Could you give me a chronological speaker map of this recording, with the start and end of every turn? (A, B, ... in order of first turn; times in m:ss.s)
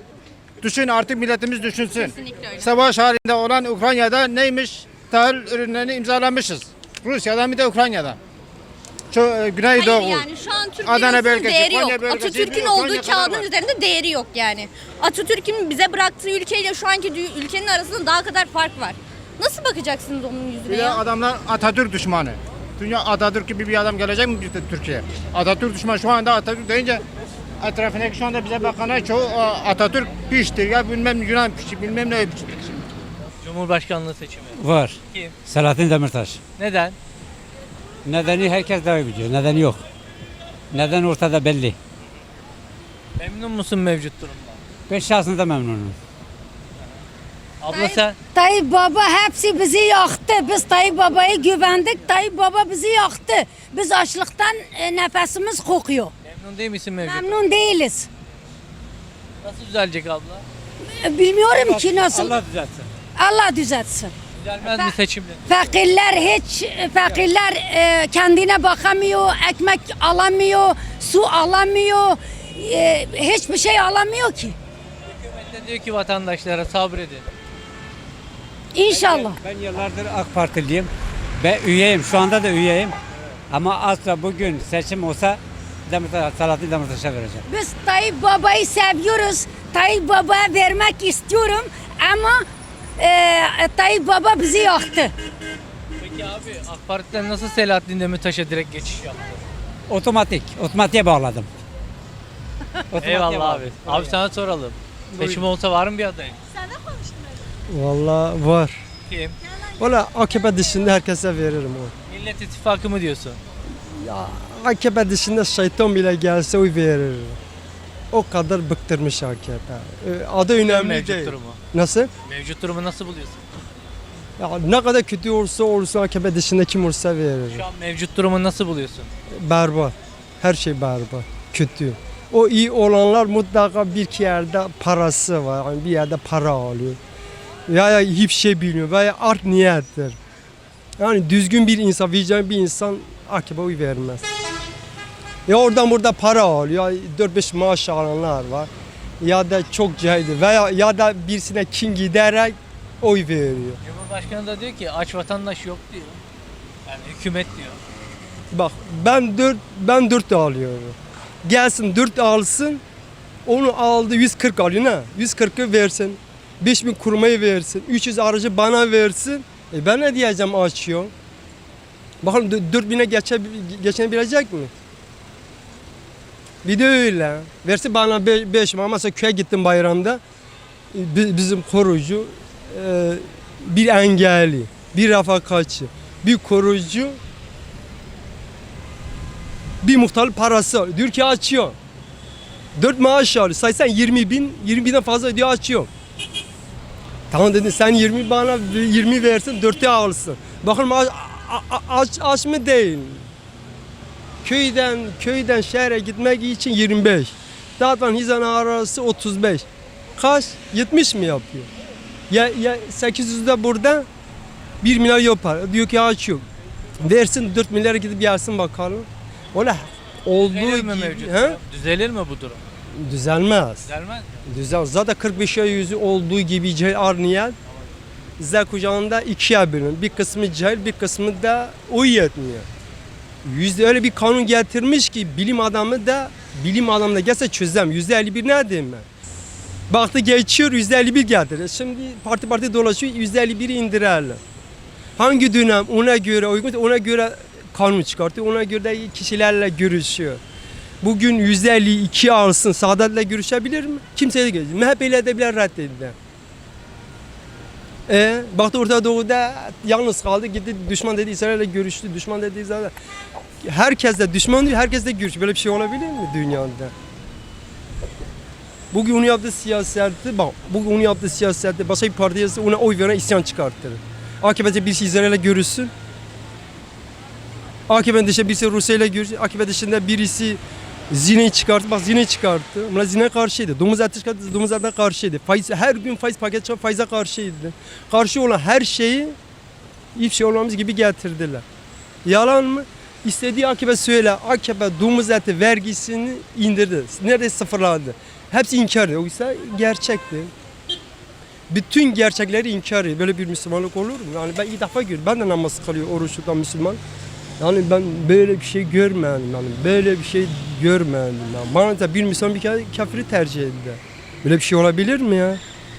0:00.6-0:08.2 A
0:01.8-0:02.8 B
0:09.1-0:10.2 A
0:09.7-0:21.0 B
0:10.9-0:13.5 A
0:20.7-0:27.0 A
0:27.6-0:32.9 A
0:33.4-0:35.4 C
0:34.6-0:36.4 D
0:36.6-0:37.0 C
0:38.0-0:39.8 D
0:40.7-0:41.8 D
0:43.2-0:44.6 C
0:44.9-0:46.0 D
0:47.6-0:48.2 C
0:47.7-0:48.1 B
0:48.3-0:56.1 E
0:56.2-0:57.4 C
0:57.0-0:58.1 E
0:59.4-1:00.4 C
1:00.8-1:02.4 E
1:01.5-1:02.9 D
1:03.2-1:04.9 E
1:04.4-1:05.7 C
1:05.5-1:14.6 E
1:15.2-1:17.3 C
1:18.7-1:19.4 E
1:18.9-1:23.0 D
1:23.5-1:27.4 D
1:27.5-1:32.5 E
1:33.0-1:35.1 E
1:36.0-1:39.4 C
1:39.9-1:41.5 D
1:42.9-1:44.1 D
1:42.9-1:46.4 C
1:45.1-1:45.5 F
1:47.7-1:48.8 F
1:49.1-1:49.4 C
1:49.8-1:51.9 F
1:52.1-1:53.4 C
1:53.9-1:57.4 F
1:58.1-2:02.1 F
2:00.6-2:01.6 C
2:02.2-2:03.4 C
2:04.4-2:07.7 F
2:07.5-2:09.1 C
2:09.3-2:17.0 F
2:17.7-2:20.2 F
2:21.0-2:24.3 F
2:25.5-2:33.8 F
2:33.8-2:36.2 C
2:36.9-2:37.8 C
2:38.5-2:42.8 F
2:43.5-2:51.1 F
2:52.2-2:54.7 F
2:56.6-3:00.2 F
3:00.9-3:07.2 F
3:09.8-3:11.8 F
3:12.8-3:15.9 F
3:17.3-3:23.3 F
3:24.4-3:29.7 F
3:30.2-3:31.7 F
3:32.3-3:34.1 F
3:34.8-3:36.5 F
3:37.0-3:41.6 F
3:40.4-3:42.6 C
3:42.9-3:43.9 F
3:43.8-3:44.3 C
3:44.5-3:47.6 F
3:48.4-3:52.7 F
3:53.4-3:59.1 F
3:59.9-4:04.4 F
4:05.2-4:10.4 F
4:11.0-4:16.2 F
4:18.1-4:22.9 F
4:23.6-4:26.9 F
4:28.9-4:35.9 F
4:37.9-4:49.4 F
4:50.2-4:51.6 F
4:52.2-5:00.5 F
5:01.7-5:07.0 F
5:07.6-5:15.6 F